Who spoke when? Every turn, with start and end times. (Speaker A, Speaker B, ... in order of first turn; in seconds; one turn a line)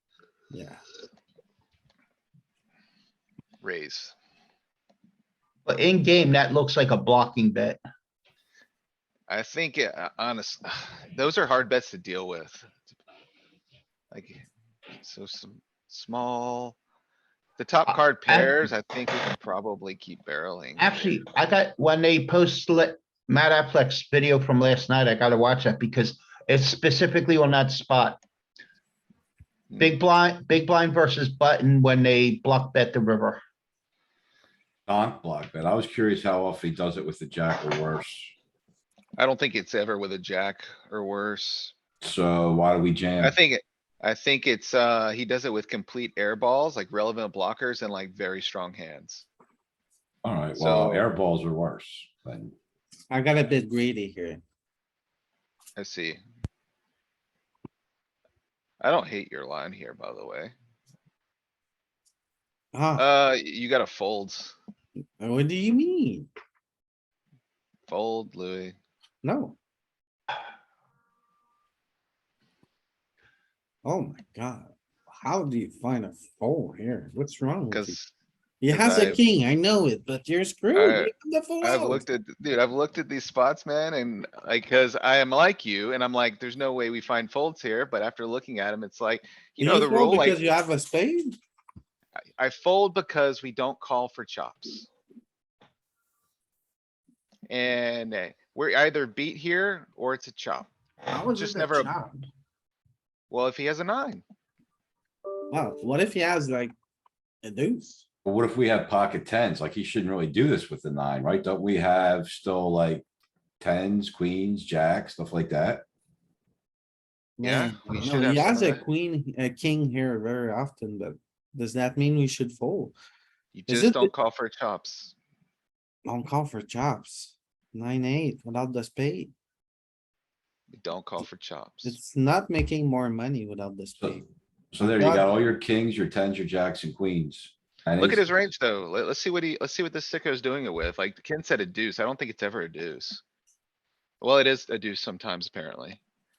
Speaker A: 0.5-0.8
Speaker B: 3.6-4.1
Speaker C: 5.7-7.8
Speaker B: 9.3-12.9
Speaker B: 14.1-14.4
Speaker B: 15.0-16.8
Speaker B: 17.6-21.2
Speaker C: 17.9-18.5
Speaker C: 20.8-28.2
Speaker C: 29.8-33.4
Speaker D: 34.9-38.3
Speaker B: 39.2-41.7
Speaker D: 42.0-43.3
Speaker B: 43.2-49.3
Speaker D: 50.2-52.5
Speaker B: 50.5-51.1
Speaker A: 53.1-54.4
Speaker B: 55.8-56.2
Speaker B: 58.8-60.5
Speaker A: 62.7-63.0
Speaker B: 63.0-64.5
Speaker A: 65.2-66.3
Speaker B: 67.9-68.8
Speaker A: 69.2-69.6
Speaker A: 73.8-78.0
Speaker B: 77.7-78.1
Speaker A: 78.6-82.0
Speaker B: 78.7-79.2
Speaker B: 80.7-90.4
Speaker A: 89.6-91.4
Speaker B: 92.4-94.9
Speaker B: 97.5-100.7
Speaker A: 101.1-102.3
Speaker B: 101.3-101.9
Speaker B: 103.3-104.2
Speaker A: 105.5-106.7
Speaker A: 107.4-108.0
Speaker D: 108.2-113.0
Speaker D: 113.6-115.8
Speaker A: 117.4-122.9
Speaker B: 117.4-118.8
Speaker B: 123.5-125.1
Speaker A: 123.7-124.1
Speaker A: 126.0-129.3
Speaker B: 130.7-132.0
Speaker A: 131.8-134.3
Speaker D: 134.7-138.3
Speaker A: 134.8-135.3
Speaker B: 138.0-143.2
Speaker B: 144.2-146.0